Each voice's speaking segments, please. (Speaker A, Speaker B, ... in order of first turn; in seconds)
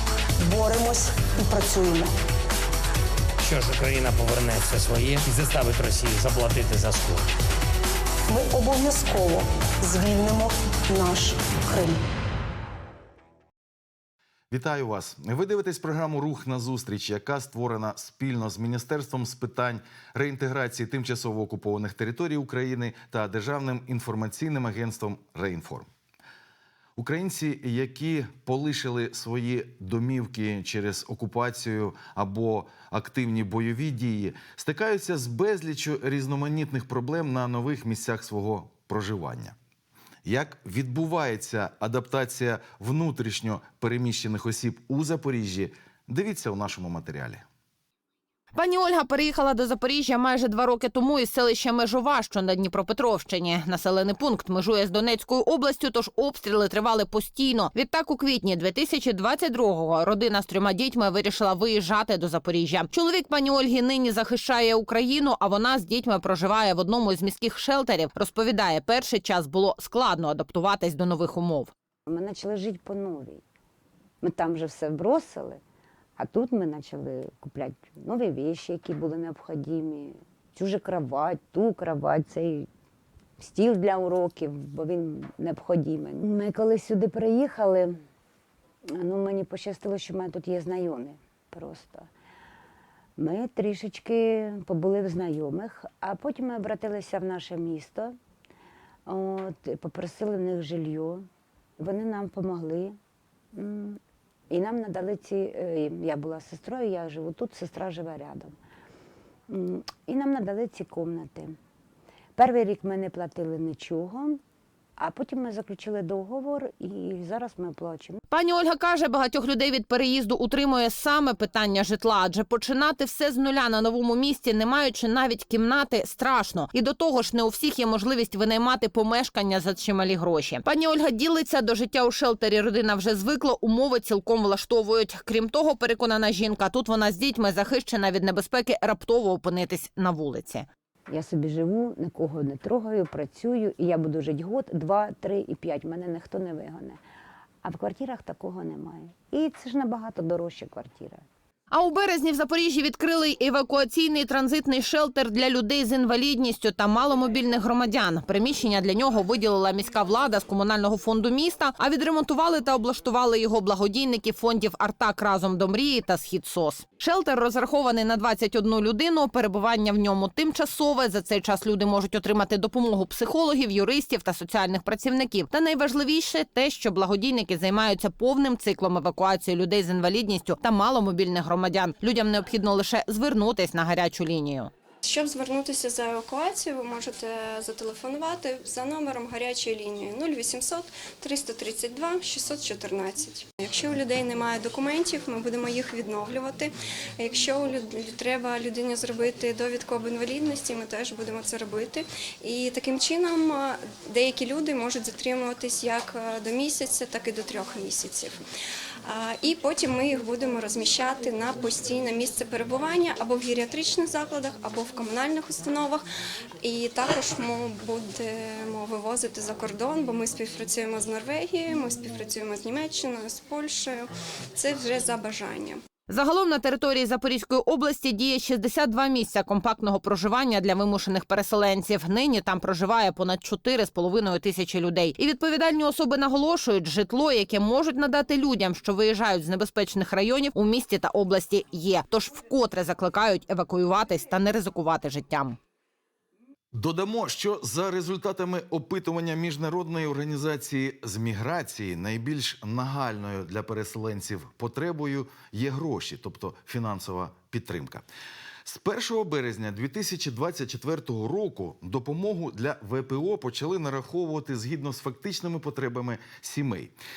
Speaker A: 0.4-2.1, 8.3-12.0
Speaker B: 3.4-7.3
Speaker C: 14.5-25.9, 27.0-39.6, 40.2-47.4, 246.7-258.1, 258.6-266.9
Speaker D: 48.5-71.7, 118.3-140.7, 151.7-184.7, 226.1-245.6
Speaker E: 72.1-73.4, 74.2-75.6, 76.2-82.7, 83.4-88.0, 88.9-92.1, 93.2-98.2, 99.1-101.3, 101.8-103.0, 103.5-108.5, 109.5-111.6, 112.4-114.4, 115.0-118.2, 141.1-147.0, 147.6-151.2
Speaker F: 185.0-208.4, 209.1-216.1, 216.6-225.8